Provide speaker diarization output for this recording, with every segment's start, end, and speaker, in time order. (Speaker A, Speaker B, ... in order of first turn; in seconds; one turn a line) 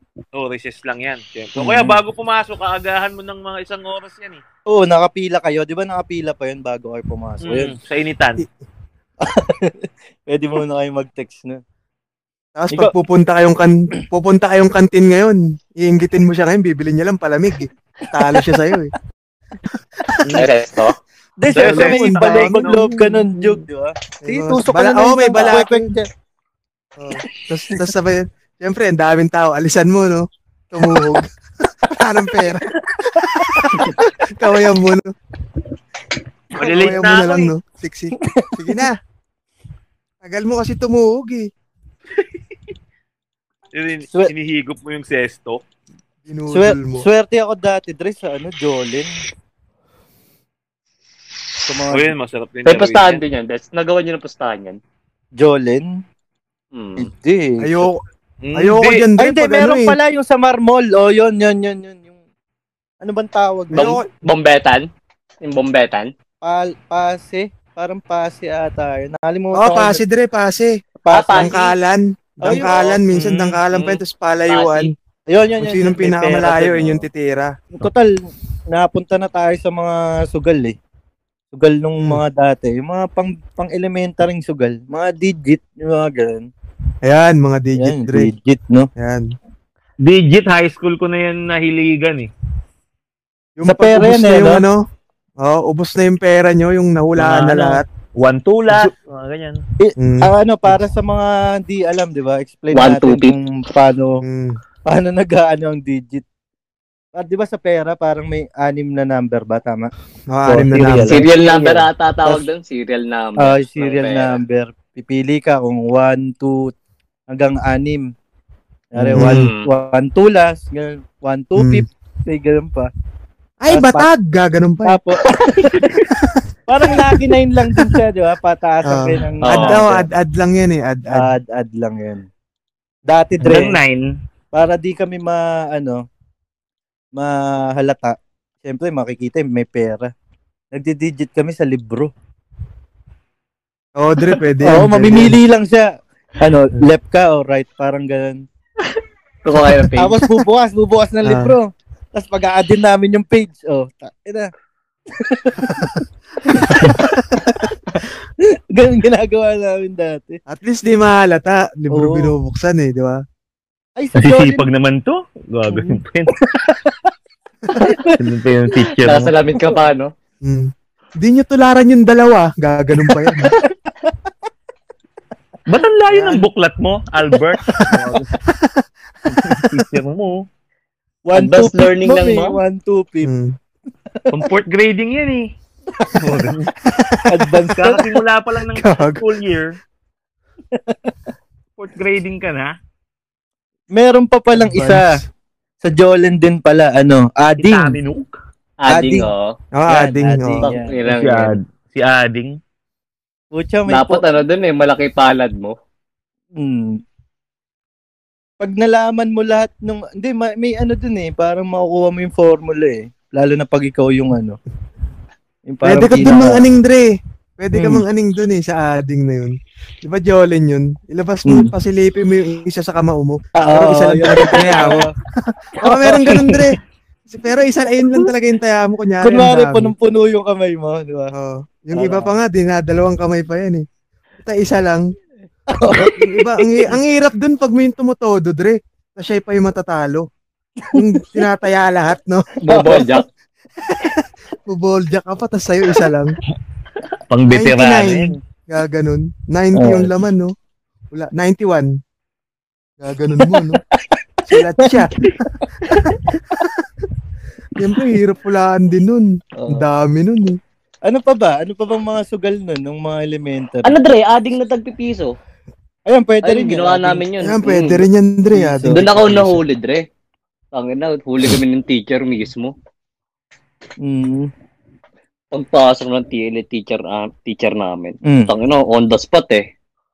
Speaker A: 0.3-4.4
Speaker B: 1.6-1.9
Speaker C: 4.7-7.8
Speaker A: 7.4-8.4
Speaker C: 9.2-11.6
Speaker B: 12.6-18.9
Speaker B: 20.1-20.5
Speaker D: 20.3-21.0
Speaker C: 21.4-26.1
Speaker B: 21.5-23.3
Speaker A: 21.5-23.1
Speaker B: 24.2-25.9
Speaker B: 27.0-35.1
Speaker C: 32.9-34.0
Speaker A: 36.6-37.5
Speaker C: 36.6-37.0
Speaker B: 36.6-39.0
Speaker C: 38.2-38.8
Speaker B: 40.2-41.5
Speaker A: 43.7-45.6
Speaker B: 46.3-47.1
Speaker C: 46.5-49.1
Speaker C: 51.6-52.1
Speaker A: 51.9-53.2
Speaker D: 52.7-54.8
Speaker C: 55.4-56.0
Speaker D: 56.7-57.1
Speaker C: 57.0-57.9
Speaker B: 57.6-58.0
Speaker A: 58.4-59.1
Speaker B: 58.5-60.0
Speaker C: 59.2-62.1
Speaker C: 63.0-64.0
Speaker B: 63.7-64.1
Speaker D: 63.7-64.9
Speaker D: 65.4-66.1
Speaker C: 66.4-70.0
Speaker B: 69.5-74.9
Speaker C: 71.0-71.6
Speaker D: 71.1-71.7
Speaker C: 72.4-73.5
Speaker A: 73.2-73.9
Speaker D: 74.5-74.9
Speaker C: 75.3-77.1
Speaker B: 75.6-77.5
Speaker C: 77.7-80.8
Speaker C: 81.5-86.5
Speaker B: 87.0-88.3
Speaker C: 87.8-88.9
Speaker B: 89.0-89.3
Speaker A: 90.0-92.3
Speaker B: 93.6-94.8
Speaker C: 93.7-94.6
Speaker B: 95.4-97.8
Speaker A: 97.2-99.6
Speaker C: 99.8-104.2
Speaker B: 100.0-100.8
Speaker D: 102.7-103.3
Speaker B: 104.2-104.6
Speaker C: 104.9-106.2
Speaker C: 107.2-109.9
Speaker B: 110.3-111.2
Speaker C: 110.5-111.2
Speaker A: 110.7-111.9
Speaker D: 111.0-114.4
Speaker C: 113.4-116.7
Speaker C: 117.3-118.1
Speaker C: 118.9-122.9
Speaker B: 119.0-119.5
Speaker D: 119.2-119.7
Speaker B: 121.6-121.8
Speaker B: 123.6-125.0
Speaker C: 123.7-124.1
Speaker C: 124.8-125.9
Speaker B: 126.2-126.4
Speaker C: 126.7-130.1
Speaker B: 128.8-131.3
Speaker D: 129.4-129.8
Speaker C: 131.1-132.3
Speaker C: 133.1-133.8
Speaker A: 133.4-134.1
Speaker C: 134.5-136.0
Speaker C: 137.2-140.1
Speaker C: 140.7-142.1
Speaker B: 144.0-145.4
Speaker C: 144.6-148.4
Speaker D: 149.4-150.2
Speaker C: 150.0-154.5
Speaker B: 151.2-151.6
Speaker C: 155.1-160.4
Speaker B: 155.7-156.0
Speaker B: 156.6-157.6
Speaker B: 160.5-163.2
Speaker C: 161.9-162.3
Speaker C: 164.0-164.7
Speaker A: 164.2-166.3
Speaker C: 165.7-167.1
Speaker C: 167.7-168.2
Speaker A: 168.1-169.3
Speaker D: 169.0-170.1
Speaker B: 170.4-173.5
Speaker C: 173.3-174.1
Speaker A: 175.7-178.3
Speaker B: 176.1-176.5
Speaker B: 178.5-179.8
Speaker A: 179.3-180.4
Speaker C: 181.3-183.3
Speaker D: 181.3-182.6
Speaker B: 183.2-183.6
Speaker C: 184.1-184.5
Speaker A: 184.3-185.5
Speaker A: 186.1-186.8
Speaker B: 186.9-187.3
Speaker C: 187.3-188.1
Speaker A: 187.6-189.8
Speaker B: 188.7-189.2
Speaker C: 190.7-191.3
Speaker A: 191.8-192.8
Speaker C: 193.9-195.1
Speaker B: 194.5-195.3
Speaker C: 195.8-198.0
Speaker A: 197.6-198.3
Speaker D: 198.8-199.5
Speaker C: 198.9-199.3
Speaker B: 199.8-200.7
Speaker C: 199.9-201.0
Speaker D: 200.6-201.6
Speaker A: 201.1-202.6
Speaker C: 203.5-204.2
Speaker D: 203.9-205.8
Speaker C: 206.6-207.0
Speaker C: 208.6-214.6
Speaker C: 215.7-216.7
Speaker B: 215.8-229.9
Speaker C: 217.7-218.0
Speaker C: 221.5-221.7
Speaker C: 223.6-225.1
Speaker C: 225.8-226.6
Speaker C: 229.2-231.3
Speaker B: 231.3-233.8
Speaker C: 231.9-232.3
Speaker B: 234.4-235.1
Speaker C: 235.7-237.0
Speaker B: 235.9-240.3
Speaker C: 240.8-241.4
Speaker B: 240.9-242.5
Speaker D: 242.6-243.3
Speaker C: 242.7-243.2
Speaker B: 243.9-246.4
Speaker A: 247.3-248.4
Speaker B: 247.5-250.5
Speaker C: 249.8-250.1
Speaker B: 251.1-251.9
Speaker B: 253.0-253.8
Speaker B: 254.5-255.3
Speaker C: 254.8-256.3
Speaker B: 256.1-256.8
Speaker B: 257.8-260.6
Speaker C: 259.6-259.8
Speaker C: 261.1-263.9
Speaker D: 263.8-265.4
Speaker C: 266.1-267.2
Speaker D: 266.4-268.1
Speaker B: 267.4-269.6
Speaker C: 268.5-269.0
Speaker D: 268.9-270.1
Speaker D: 270.7-272.7
Speaker C: 274.0-274.5
Speaker D: 275.5-279.7
Speaker C: 278.2-278.5